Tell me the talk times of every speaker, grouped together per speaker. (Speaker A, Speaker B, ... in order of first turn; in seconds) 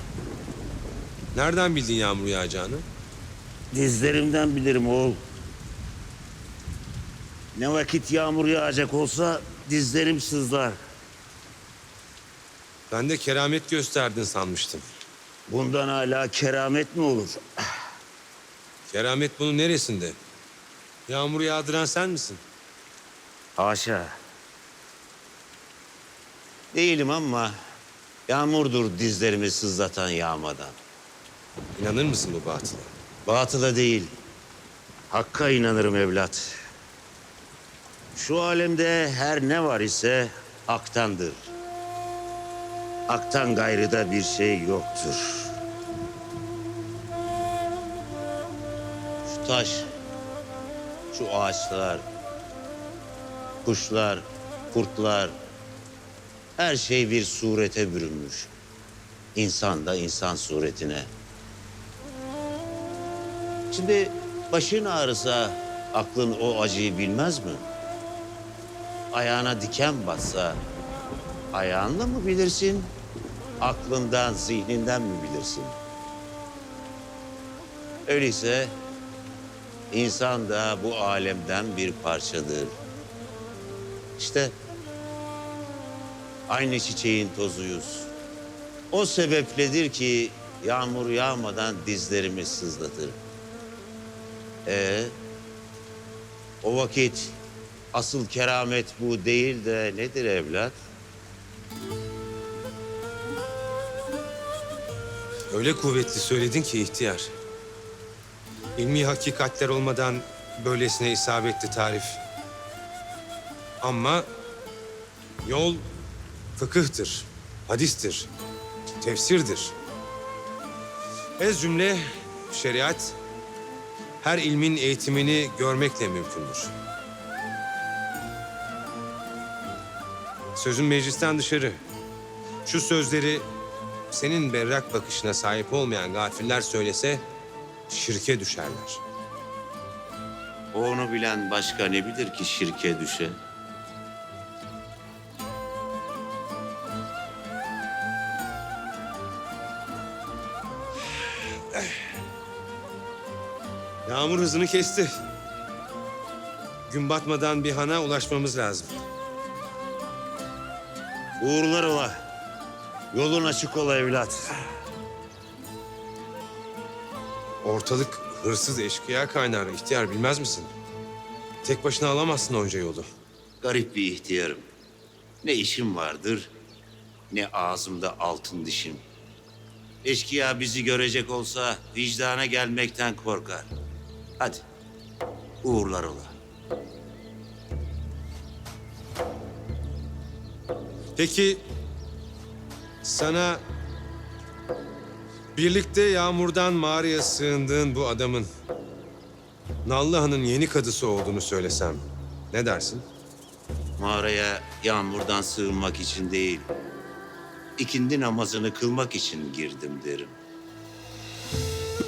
Speaker A: 1.3-2.8, 12.9-14.8, 18.9-20.2, 21.1-22.4, 31.8-32.9, 105.5-107.3, 108.8-112.2, 113.8-114.2, 115.5-115.8, 116.6-118.3, 119.0-119.7, 121.4-123.2, 124.2-126.7, 130.6-131.8, 132.7-133.4, 134.1-137.2, 137.9-139.0, 151.7-152.1, 154.1-155.1, 156.9-159.0, 167.6-170.7, 171.6-173.1, 191.2-191.6, 193.0-193.6, 195.6-198.5, 199.8-203.0
Speaker B: 3.7-5.2, 7.5-10.8, 15.5-17.4, 23.6-24.1, 26.7-27.5, 28.3-30.7, 33.3-34.1, 35.1-36.5, 38.1-41.5, 43.1-45.5, 49.3-49.9, 51.1-52.0, 53.6-55.4, 56.6-58.5, 59.4-61.1, 63.7-67.6, 69.1-70.6, 71.5-72.9, 73.6-75.8, 78.1-78.7, 79.9-82.7, 84.2-84.5, 86.5-88.1, 88.9-93.2, 94.7-95.1, 96.6-97.4, 97.9-100.8, 140.7-143.4, 161.4-162.1, 163.1-164.6, 173.6-174.7, 175.4-176.5, 177.3-179.0, 180.0-183.7, 185.6-186.3, 204.0-206.7, 207.8-210.3